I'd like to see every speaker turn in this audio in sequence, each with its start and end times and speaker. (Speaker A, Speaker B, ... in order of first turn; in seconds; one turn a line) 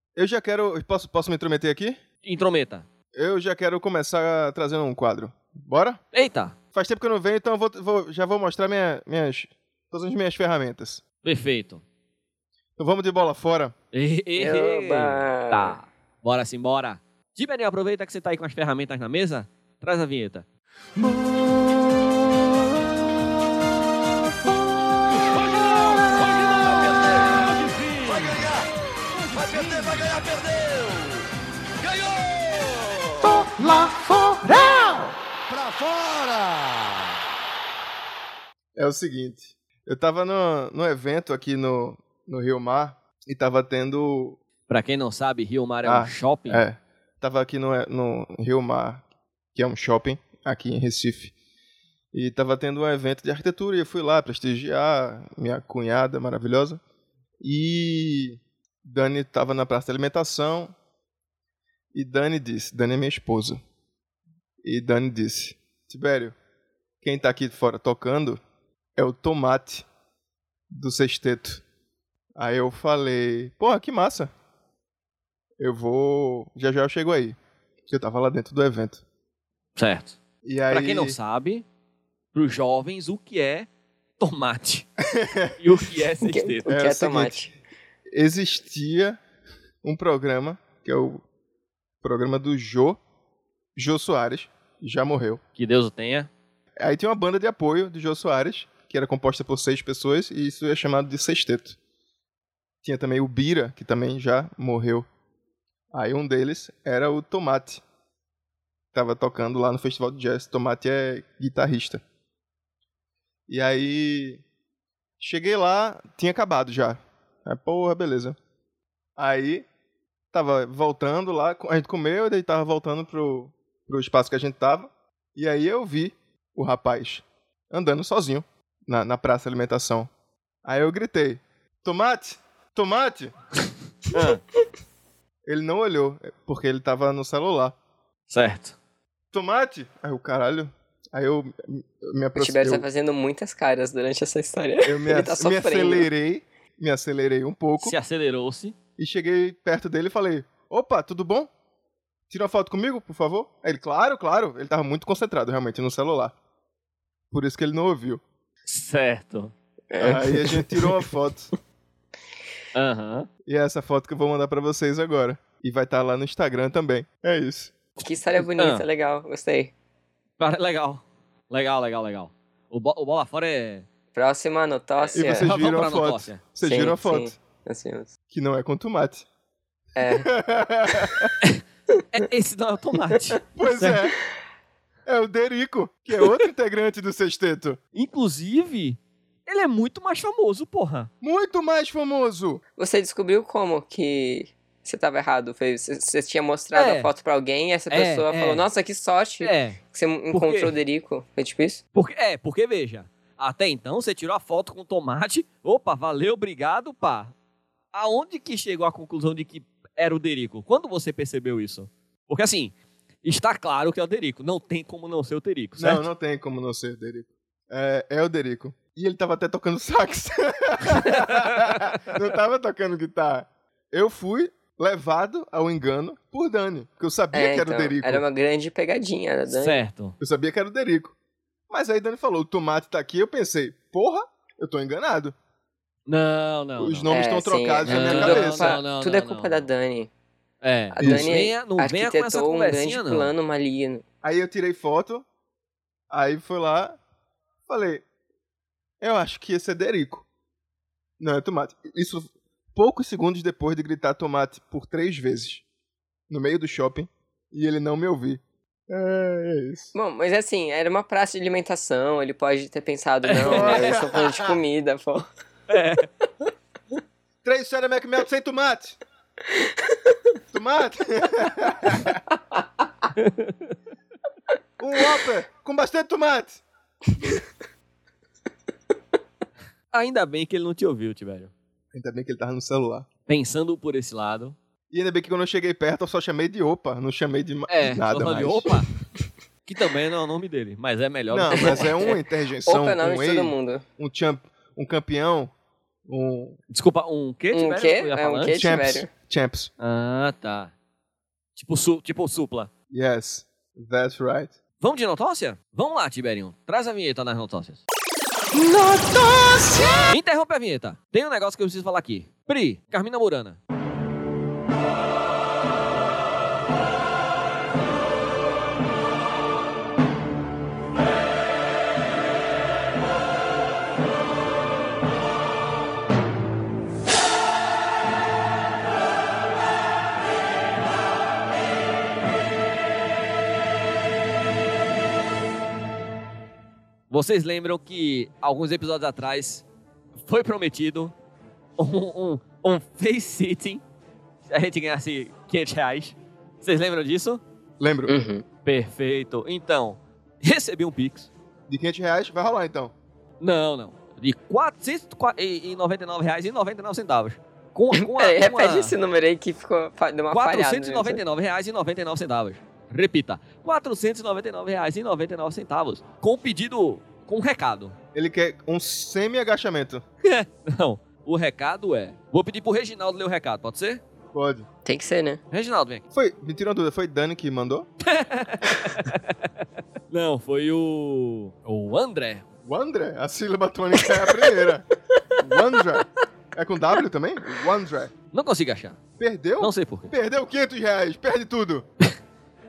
Speaker A: 0.2-2.0
Speaker B: 2.2-2.9
Speaker A: 3.1-6.0
Speaker B: 6.1-6.5
Speaker A: 6.7-11.0
Speaker B: 11.2-11.8
Speaker A: 12.8-13.8
Speaker B: 13.9-20.4
Speaker C: 14.4-15.8
Speaker B: 21.0-21.5
Speaker B: 25.0-28.7
Speaker B: 29.2-31.2
Speaker B: 31.8-33.5
Speaker A: 33.3-35.1
Speaker B: 35.5-36.9
Speaker A: 38.8-44.4
Speaker B: 44.7-46.6
Speaker A: 45.8-49.0
Speaker A: 49.5-51.3
Speaker A: 52.1-56.8
Speaker A: 57.4-60.8
Speaker A: 61.9-63.6
Speaker A: 64.6-66.4
Speaker A: 67.0-68.4
Speaker A: 69.0-69.9
Speaker A: 70.7-71.6
Speaker A: 72.4-74.3
Speaker A: 75.6-79.0
Speaker B: 79.8-81.7
Speaker A: 80.4-81.2
Speaker B: 82.3-83.7
Speaker B: 84.2-84.9
Speaker A: 85.0-85.6
Speaker B: 85.6-86.8
Speaker C: 86.2-87.5
Speaker A: 86.7-87.5
Speaker A: 88.1-89.2
Speaker A: 89.8-91.2
Speaker A: 92.0-93.0
Speaker A: 93.8-95.4
Speaker B: 95.6-96.3
Speaker A: 96.8-101.8
Speaker A: 102.8-105.1
Speaker A: 105.9-107.8
Speaker A: 108.9-112.0
Speaker A: 113.5-114.4
Speaker A: 115.2-118.4
Speaker A: 119.2-119.7
Speaker A: 120.3-130.1
Speaker A: 130.7-133.3
Speaker B: 134.1-134.4
Speaker A: 135.5-137.8
Speaker B: 138.3-138.8
Speaker A: 139.3-142.9
Speaker C: 142.4-146.1
Speaker A: 144.9-147.9
Speaker B: 147.8-148.8
Speaker A: 149.0-151.5
Speaker A: 152.3-156.4
Speaker A: 157.3-158.2
Speaker B: 158.7-159.5
Speaker C: 159.9-161.0
Speaker A: 160.0-161.5
Speaker B: 162.8-163.3
Speaker A: 163.5-167.8
Speaker C: 168.0-169.7
Speaker B: 168.6-168.8
Speaker B: 170.4-173.9
Speaker C: 174.1-175.5
Speaker B: 175.1-176.4
Speaker A: 175.2-177.3
Speaker C: 176.6-178.1
Speaker A: 178.3-179.3
Speaker C: 180.0-180.3
Speaker A: 180.0-181.3
Speaker B: 181.4-184.0
Speaker A: 183.6-184.2
Speaker A: 185.1-187.8
Speaker B: 187.9-191.1
Speaker A: 191.2-192.6
Speaker C: 192.8-201.8
Speaker B: 196.8-197.1
Speaker B: 197.9-198.7
Speaker B: 199.4-199.8
Speaker B: 200.3-200.7
Speaker B: 201.9-207.3
Speaker B: 207.9-216.1
Speaker A: 215.8-228.2
Speaker B: 221.2-221.9
Speaker C: 227.3-229.8
Speaker B: 229.5-230.2
Speaker A: 230.2-231.1
Speaker A: 231.7-235.3
Speaker B: 236.1-237.1
Speaker A: 236.8-238.8
Speaker C: 237.1-240.1
Speaker B: 237.9-239.7
Speaker B: 240.6-243.3
Speaker C: 240.9-244.0
Speaker A: 241.0-241.4
Speaker A: 244.2-245.3
Speaker A: 246.1-247.0
Speaker A: 247.7-248.0
Speaker A: 249.0-250.2
Speaker A: 251.2-255.6
Speaker A: 256.3-259.9
Speaker C: 259.9-265.3
Speaker B: 263.3-263.9
Speaker A: 263.5-264.6
Speaker B: 265.7-266.1
Speaker A: 267.4-269.0
Speaker C: 269.5-270.2
Speaker A: 270.5-272.2
Speaker B: 273.2-273.7
Speaker A: 274.8-276.6
Speaker B: 279.9-281.5
Speaker A: 281.9-283.1
Speaker B: 283.3-284.6
Speaker A: 284.9-288.8
Speaker B: 287.7-288.9
Speaker B: 289.6-292.0
Speaker A: 291.3-295.5
Speaker C: 291.5-293.8
Speaker A: 296.1-296.6
Speaker B: 296.7-298.6
Speaker C: 297.5-299.1
Speaker A: 298.5-299.7
Speaker B: 299.8-300.7
Speaker B: 301.6-302.7
Speaker A: 302.9-304.6
Speaker B: 304.8-307.8
Speaker A: 308.5-310.1
Speaker B: 310.1-313.6
Speaker B: 337.1-339.6
Speaker B: 340.2-341.1
Speaker B: 341.8-343.8
Speaker B: 344.5-347.4
Speaker A: 347.8-348.2
Speaker C: 348.1-348.4
Speaker B: 348.6-351.3
Speaker A: 351.7-352.9
Speaker B: 353.4-358.9
Speaker C: 357.9-361.2
Speaker B: 360.3-367.9
Speaker A: 368.1-370.0
Speaker B: 370.2-374.0
Speaker A: 374.3-374.7
Speaker C: 374.9-375.4
Speaker B: 375.5-376.0
Speaker A: 376.1-377.9
Speaker B: 378.1-379.4
Speaker B: 380.1-382.5
Speaker A: 382.6-384.9
Speaker C: 385.3-386.0
Speaker A: 385.4-388.1
Speaker B: 388.3-389.0
Speaker A: 389.2-391.9
Speaker B: 389.6-390.1